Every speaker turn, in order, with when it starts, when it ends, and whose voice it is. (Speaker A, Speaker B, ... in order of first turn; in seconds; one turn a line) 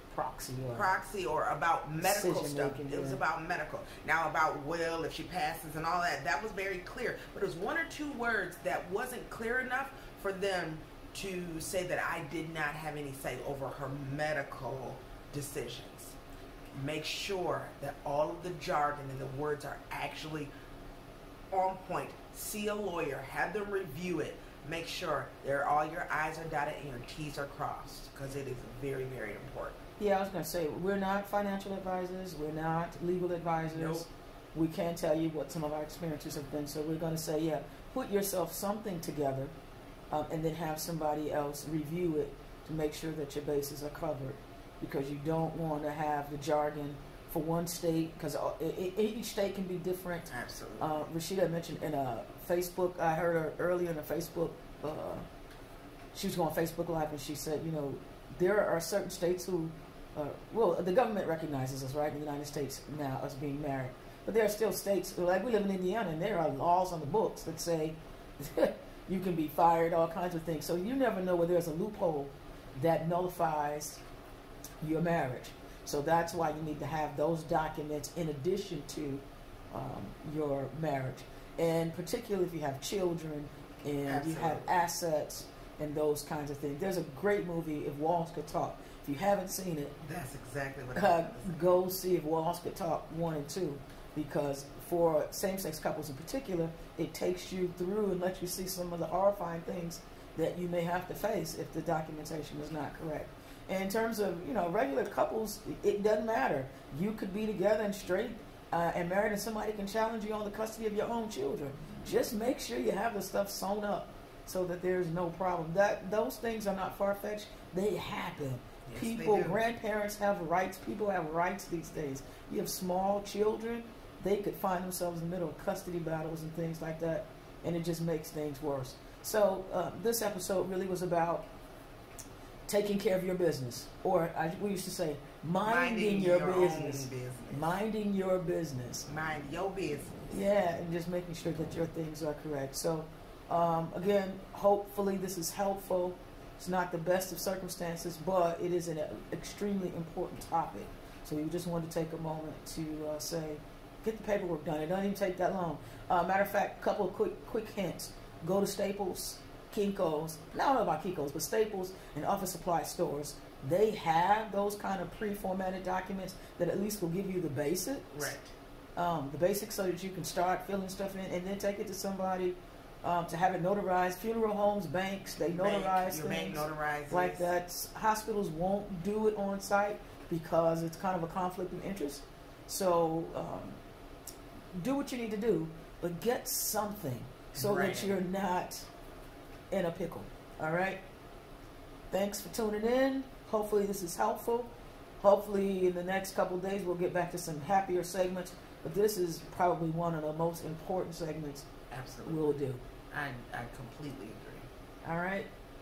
Speaker A: 0.1-0.9
Speaker B: 0.7-16.2
Speaker A: 2.0-3.2
Speaker B: 16.7-20.5
Speaker B: 21.5-29.8
Speaker A: 30.0-39.5
Speaker B: 33.6-34.1
Speaker A: 40.1-55.2
Speaker B: 50.3-51.1
Speaker A: 56.1-74.0
Speaker A: 74.8-90.0
Speaker B: 84.0-84.7
Speaker B: 90.0-91.6
Speaker A: 90.9-131.5
Speaker B: 118.8-119.6
Speaker A: 132.7-139.1
Speaker B: 135.6-137.8
Speaker B: 139.1-140.3
Speaker A: 140.3-168.3
Speaker B: 168.1-168.5
Speaker A: 168.9-183.8
Speaker B: 175.4-177.5
Speaker A: 184.7-188.9
Speaker B: 187.5-188.2
Speaker A: 189.7-191.0
Speaker A: 192.1-201.7
Speaker B: 201.9-202.6
Speaker A: 202.2-202.8
Speaker B: 203.1-204.7
Speaker A: 205.0-205.5